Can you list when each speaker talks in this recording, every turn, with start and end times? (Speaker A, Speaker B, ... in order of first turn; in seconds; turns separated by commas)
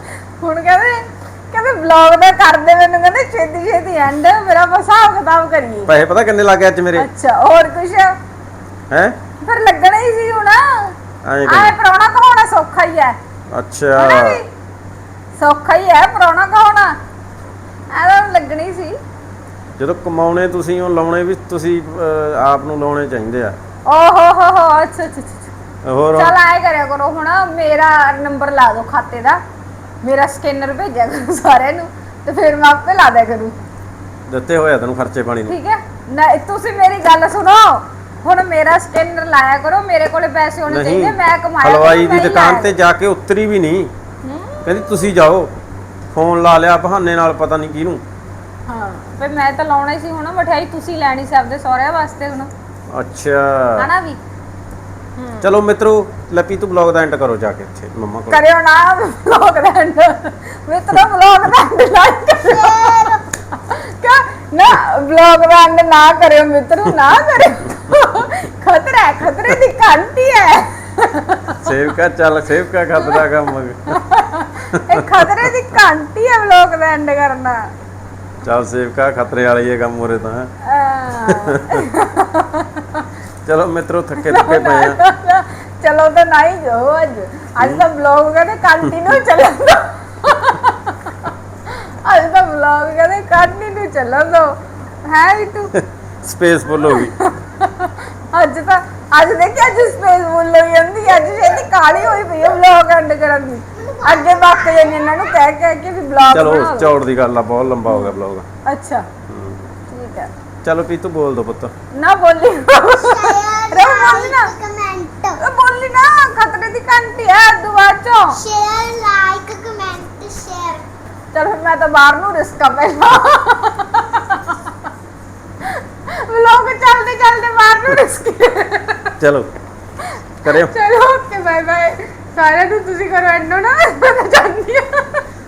Speaker A: 0.4-5.9, Speaker B: 5.9-7.1, Speaker A: 7.0-8.1, Speaker B: 8.9-9.2, Speaker A: 9.4-10.9, Speaker B: 11.2-11.8, Speaker A: 11.5-13.2, Speaker B: 13.5-14.4, Speaker A: 13.9-14.4, Speaker A: 15.4-17.0, Speaker A: 17.9-19.0, Speaker B: 19.8-23.6, Speaker A: 23.9-25.5, Speaker B: 25.8-26.4, Speaker A: 26.2-29.4, Speaker A: 30.0-33.6, Speaker B: 34.3-35.6, Speaker A: 35.5-42.7, Speaker B: 40.7-43.9, Speaker A: 44.2-44.9, Speaker B: 44.6-45.5, Speaker B: 46.1-48.0, Speaker A: 48.7-52.5, Speaker B: 52.9-53.9, Speaker A: 55.2-55.5, Speaker B: 55.4-58.5, Speaker A: 58.3-63.1, Speaker C: 62.4-63.2, Speaker A: 63.6-71.7, Speaker B: 71.6-74.0, Speaker A: 74.1-77.7, Speaker B: 74.7-75.7, Speaker B: 78.4-80.5, Speaker A: 80.7-82.7, Speaker B: 81.2-81.7, Speaker B: 83.5-85.0, Speaker A: 84.2-90.9, Speaker B: 87.6-87.9, Speaker B: 88.8-89.2, Speaker A: 91.7-95.7, Speaker B: 95.8-97.1, Speaker A: 96.8-106.9, Speaker C: 101.1-102.4, Speaker C: 103.7-105.4, Speaker B: 106.3-108.5, Speaker A: 107.9-108.2, Speaker A: 108.7-109.1, Speaker B: 109.3-109.7, Speaker A: 109.9-110.3, Speaker B: 110.6-111.7, Speaker A: 112.0-114.5, Speaker C: 112.9-115.4, Speaker A: 115.4-118.4, Speaker C: 118.3-120.8, Speaker A: 121.3-124.5, Speaker A: 125.8-129.1, Speaker B: 129.2-129.5, Speaker B: 130.4-130.7, Speaker A: 130.4-135.2